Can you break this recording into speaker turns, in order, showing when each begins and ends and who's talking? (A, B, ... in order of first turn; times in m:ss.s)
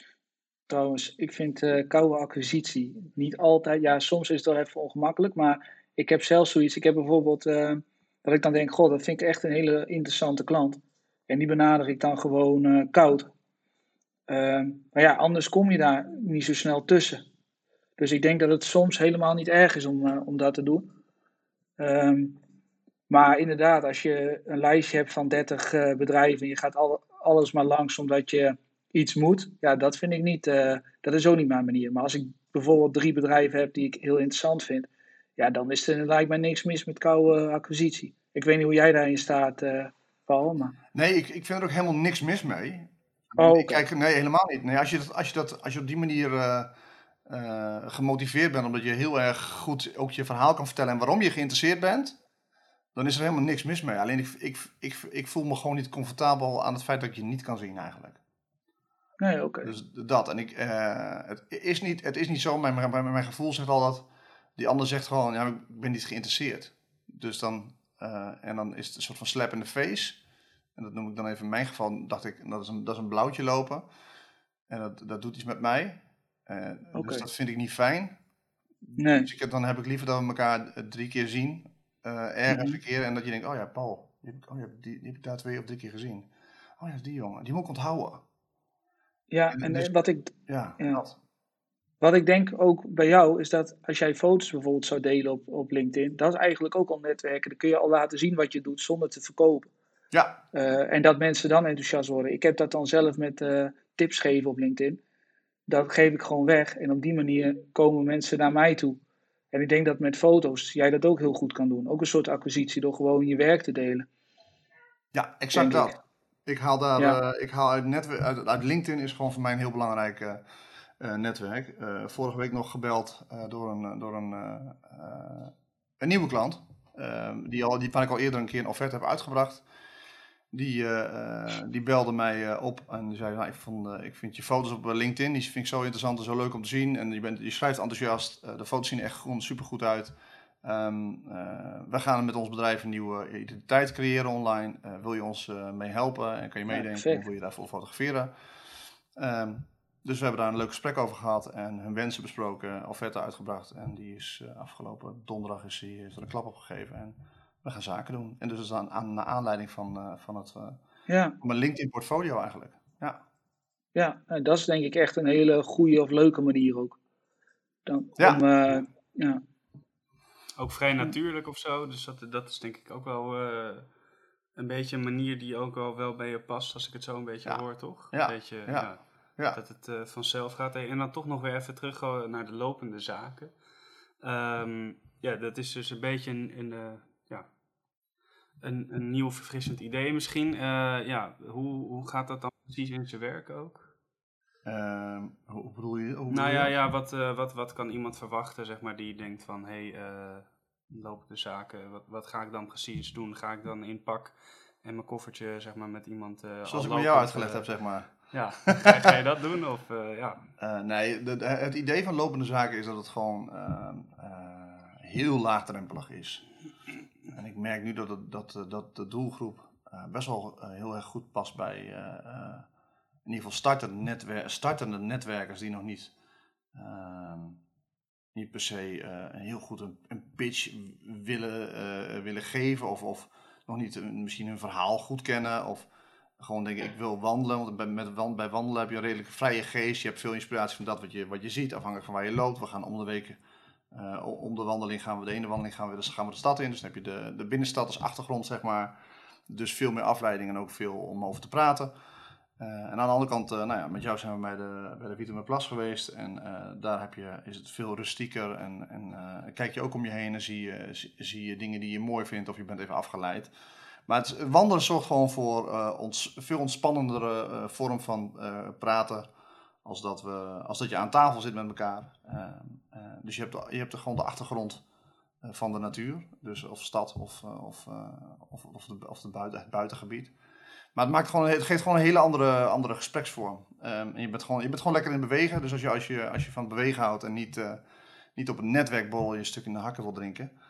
0:00.7-0:13.3 A
0:14.3-0:17.2 A
0:18.0-0:20.9 A
0:21.8-0:22.4 A
0:23.1-0:40.8 A
0:40.9-0:46.7 B
0:43.4-0:43.8 A
0:47.2-0:52.2 B
0:52.9-0:58.2 B
0:59.2-0:59.7 A
0:59.6-1:04.0 B
1:04.6-1:10.2 B
1:10.8-1:13.8 B
1:14.7-1:18.1 B
1:16.9-1:17.2 A
1:18.8-1:26.3 B
1:19.0-1:19.3 A
1:22.5-1:22.8 A
1:26.8-1:28.2 B
1:29.3-1:31.0 A
1:29.5-1:29.9 B
1:30.5-1:31.2 B
1:32.0-1:39.7 A
1:40.1-1:40.4 B
1:40.5-1:45.0 A
1:45.7-1:49.0 A
1:49.5-1:54.0 A
1:55.1-2:00.4 B
1:55.5-1:55.9 A
2:01.0-2:09.6 B
2:10.5-2:28.3 B
2:26.7-2:27.2 A
2:29.2-2:40.8 B
2:41.1-2:41.4 A
2:41.4-2:43.2 B
2:43.9-2:47.0 A
2:47.9-2:49.4 A
2:48.2-2:48.4 B
2:50.6-2:53.9 C
2:54.6-3:03.5 C
2:57.4-2:59.6 B
3:04.2-3:07.5 C
3:08.6-3:13.9 C
3:14.6-3:16.7 B
3:16.3-3:27.7 C
3:26.6-3:29.2 B
3:28.2-3:30.4 C
3:30.6-3:36.4 B
3:37.3-3:42.7 B
3:43.2-3:46.1 B
3:46.7-3:47.6 B
3:48.3-3:55.9 B
3:56.4-4:03.4 B
4:03.9-4:08.9 B
4:09.5-4:11.9 B
4:12.6-4:23.5 B
4:24.1-4:29.3 B
4:29.8-4:34.8 B
4:35.4-4:40.3 B
4:40.9-4:47.8 B
4:48.4-4:50.5 B